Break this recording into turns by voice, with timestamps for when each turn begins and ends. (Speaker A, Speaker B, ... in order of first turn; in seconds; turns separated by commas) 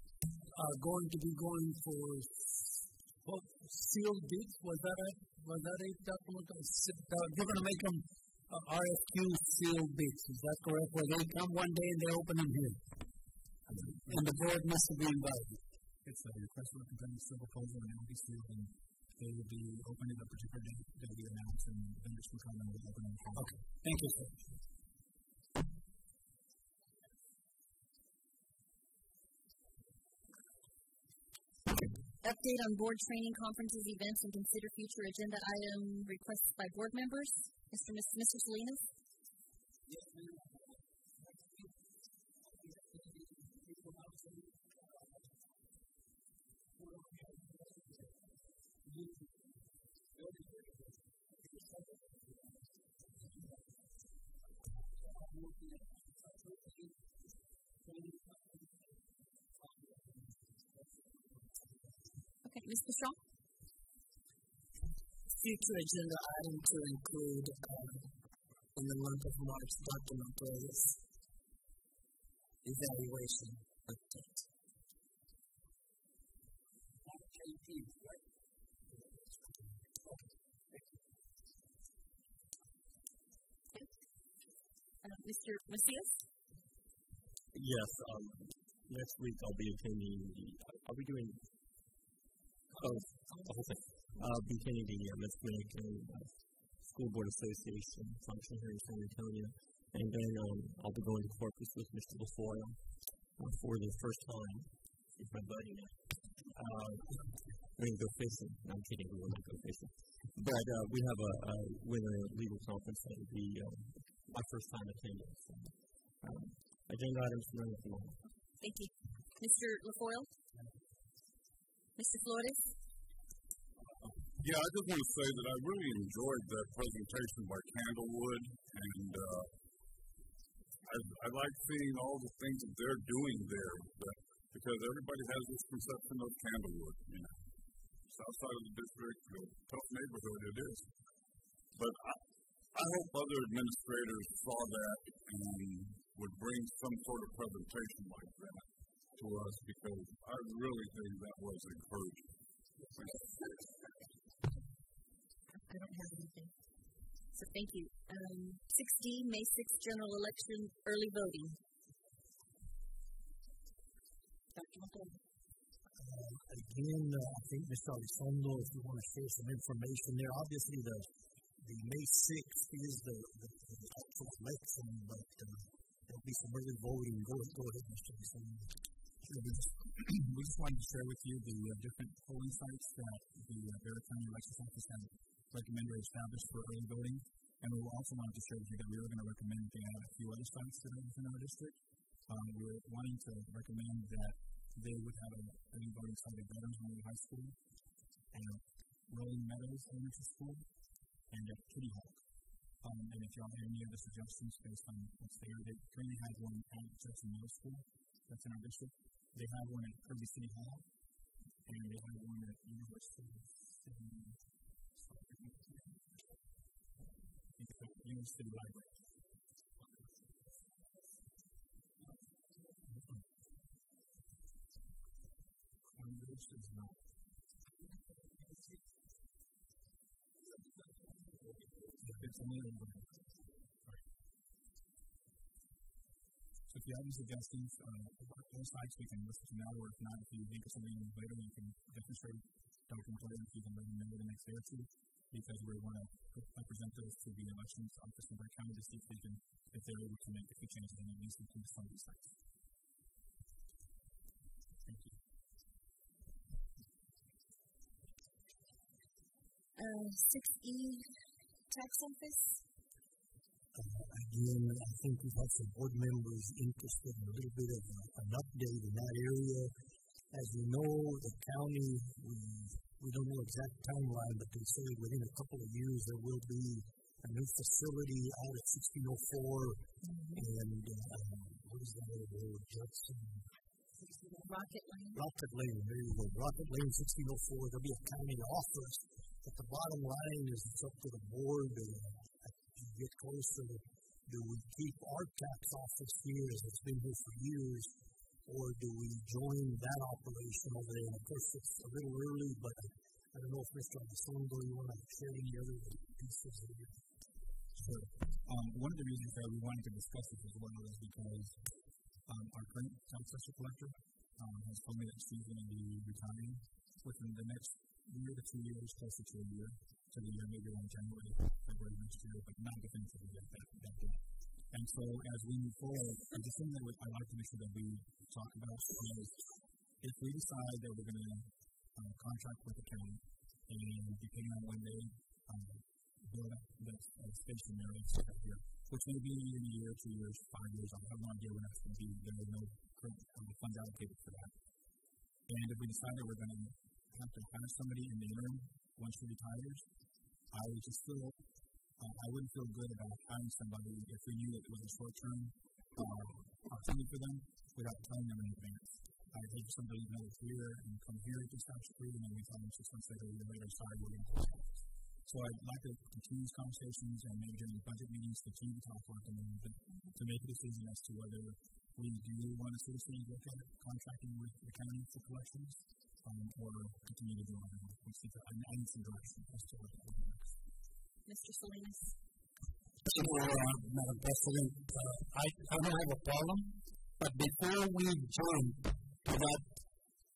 Speaker A: 0.5-12.8, Speaker A: 14.1-15.6, Speaker B: 16.0-23.5, Speaker A: 23.4-24.5, Speaker C: 32.2-38.9, Speaker A: 39.9-41.7, Speaker A: 42.4-45.4, Speaker A: 46.8-48.2, Speaker A: 48.8-49.5, Speaker A: 50.1-53.8, Speaker A: 54.6-57.0, Speaker A: 57.8-59.0, Speaker A: 59.6-61.7, Speaker C: 62.4-63.2, Speaker D: 65.3-68.1, Speaker D: 68.7-71.0, Speaker D: 72.6-74.4, Speaker A: 77.0-78.2, Speaker A: 78.9-79.6, Speaker C: 85.0-86.2, Speaker E: 87.5-91.4, Speaker E: 92.8-102.8, Speaker E: 103.4-107.2, Speaker E: 107.8-115.7, Speaker E: 116.2-118.2, Speaker C: 118.6-120.3, Speaker C: 122.0-122.8, Speaker F: 124.4-129.5, Speaker F: 130.8-137.4, Speaker F: 138.1-140.9, Speaker F: 141.8-142.2, Speaker F: 142.7-152.3, Speaker C: 153.0-154.1, Speaker C: 155.7-156.5, Speaker C: 157.3-161.6, Speaker C: 164.6-165.1, Speaker G: 165.9-178.8, Speaker B: 179.2-197.6, Speaker B: 198.3-200.7, Speaker B: 201.3-202.2, Speaker B: 202.8-210.9, Speaker B: 211.7-214.4, Speaker B: 214.9-216.0, Speaker B: 217.6-218.9, Speaker B: 222.9-223.2, Speaker B: 225.8-227.0, Speaker A: 228.4-228.7, Speaker B: 232.0-233.1, Speaker B: 236.7-252.3, Speaker B: 254.8-255.2, Speaker C: 259.8-261.2, Speaker C: 261.7-262.6, Speaker G: 263.7-269.8, Speaker G: 270.3-283.5, Speaker C: 284.0-285.2, Speaker G: 285.1-297.9, Speaker G: 298.4-307.0, Speaker B: 307.8-311.6, Speaker B: 312.3-329.4, Speaker B: 330.0-344.6, Speaker B: 345.5-349.9, Speaker B: 350.5-351.4, Speaker B: 352.0-380.6, Speaker C: 381.3-382.1, Speaker A: 383.0-389.7